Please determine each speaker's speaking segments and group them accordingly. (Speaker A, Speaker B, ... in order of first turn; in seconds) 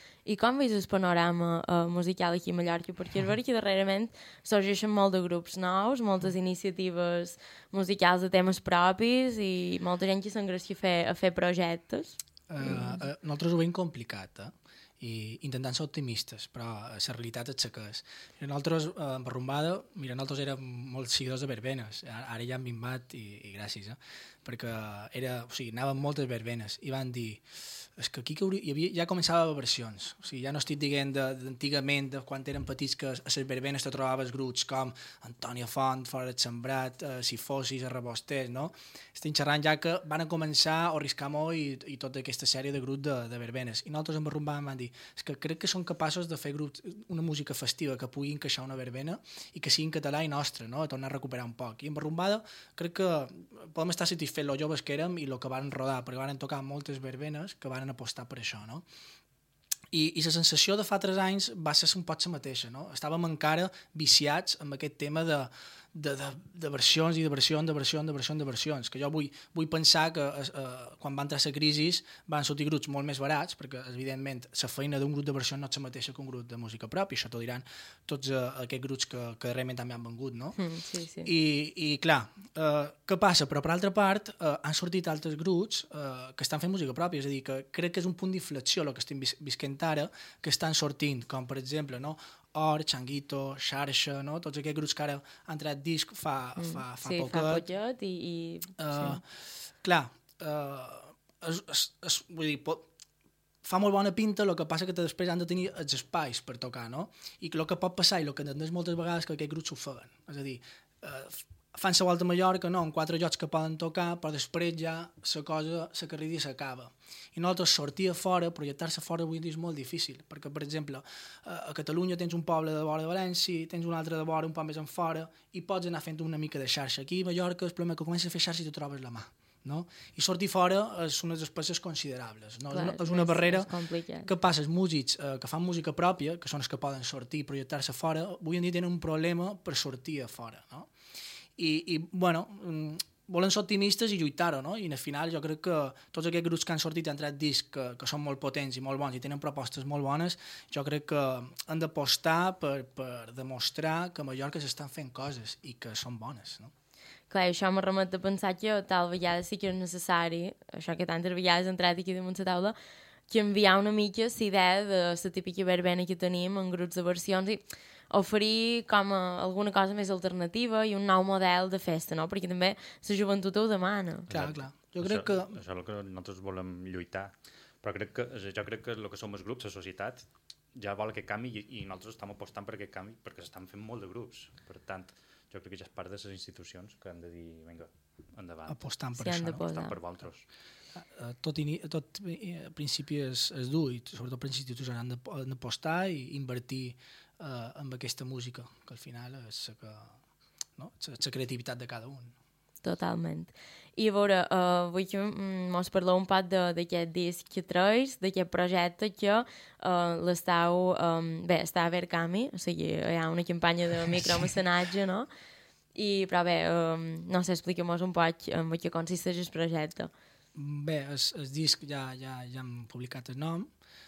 Speaker A: 0.2-13.0, 80.5-81.3, 96.6-99.2, 132.7-134.3, 157.3-162.8, 163.3-174.3, 189.2-189.9, 202.8-215.3, 215.9-220.1
Speaker B: 12.5-58.8, 59.9-80.6, 81.2-97.6, 98.8-102.9, 103.6-133.7, 134.2-140.9, 141.6-156.7, 174.3-175.6, 188.7-189.7, 191.0-200.2, 200.8-202.3, 220.5-223.7
Speaker C: 174.3-188.8, 189.7-190.5